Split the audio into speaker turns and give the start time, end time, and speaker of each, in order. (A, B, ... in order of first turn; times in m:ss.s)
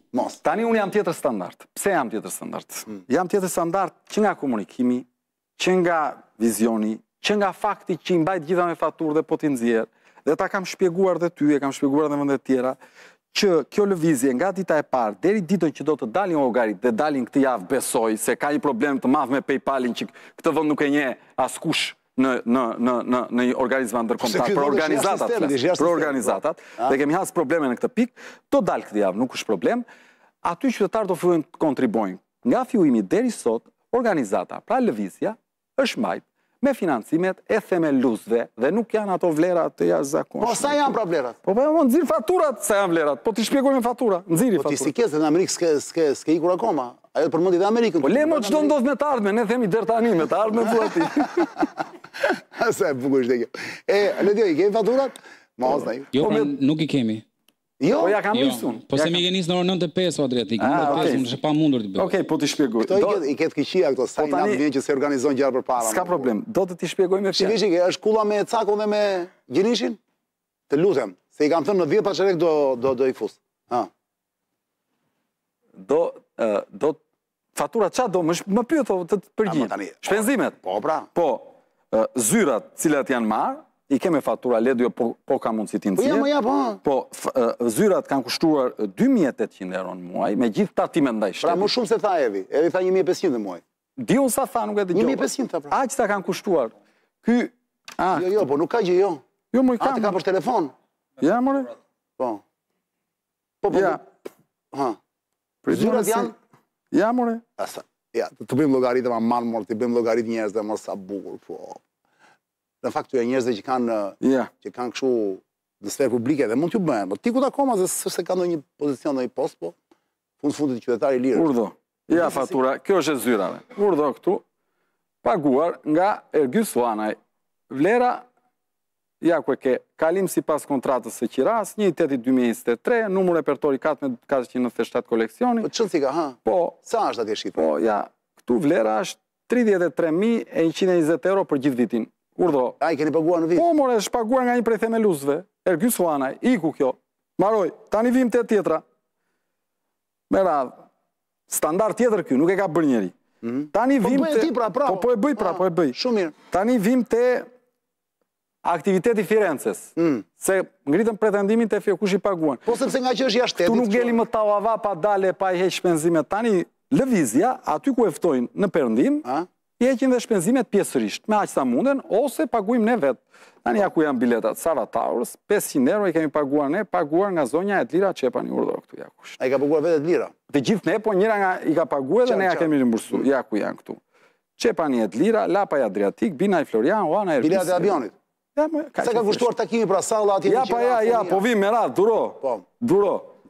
0:00.1-0:00.4 A
0:00.4-0:05.0 B
0:05.6-0:12.8 B
0:13.3-0:29.8 B
0:24.2-0:27.0 A
0:30.4-0:44.9 B
0:40.4-0:41.4 A
0:44.6-0:48.8 A
0:48.0-0:51.6 B
0:52.2-0:56.1 A
0:56.1-0:57.2 C
0:56.2-0:56.5 B
0:57.8-0:58.2 A
0:58.0-0:59.2 B
0:58.3-1:02.2 C
1:00.6-1:01.3 B
1:02.0-1:03.2 B
1:02.9-1:06.3 A
1:04.2-1:04.6 B
1:05.8-1:07.6 B
1:07.4-1:10.0 A
1:10.7-1:13.9 A
1:15.8-1:17.0 B
1:17.6-1:20.6 B
1:19.4-1:21.1 A
1:21.1-1:26.3 B
1:26.0-1:26.8 A
1:26.8-1:31.7 B
1:31.4-1:33.6 A
1:34.0-1:38.3 B
1:34.9-1:35.8 A
1:38.1-1:39.2 A
1:39.5-1:40.2 B
1:39.8-1:40.7 A
1:41.2-1:41.7 B
1:43.6-1:44.0 A
1:43.7-1:44.0 B
1:44.7-1:45.0 A
1:45.6-1:46.3 B
1:45.7-1:46.3 A
1:46.9-1:47.4 B
1:47.6-1:51.8 A
1:52.8-1:59.8 A
1:54.2-1:54.5 B
2:00.4-2:01.5 A
2:01.4-2:04.4 B
2:02.1-2:02.6 A
2:05.2-2:07.2 B
2:07.7-2:08.2 B
2:09.2-2:15.7 B
2:15.6-2:17.7 A
2:16.4-2:16.8 B
2:17.6-2:22.8 B
2:22.8-2:23.7 A
2:23.6-2:28.8 B
2:30.3-2:30.8 B
2:31.5-2:33.1 B
2:33.4-2:36.3 A
2:33.7-2:36.0 B
2:36.5-2:37.5 B
2:38.6-2:42.6 B
2:40.0-2:40.2 A
2:42.7-2:44.2 A
2:43.6-2:49.2 B
2:49.8-2:59.4 B
2:59.4-3:00.3 A
3:00.5-3:04.0 B
3:02.2-3:03.2 A
3:04.6-3:08.0 B
3:07.4-3:08.1 A
3:08.6-3:09.5 B
3:09.0-3:11.4 A
3:10.5-3:13.3 B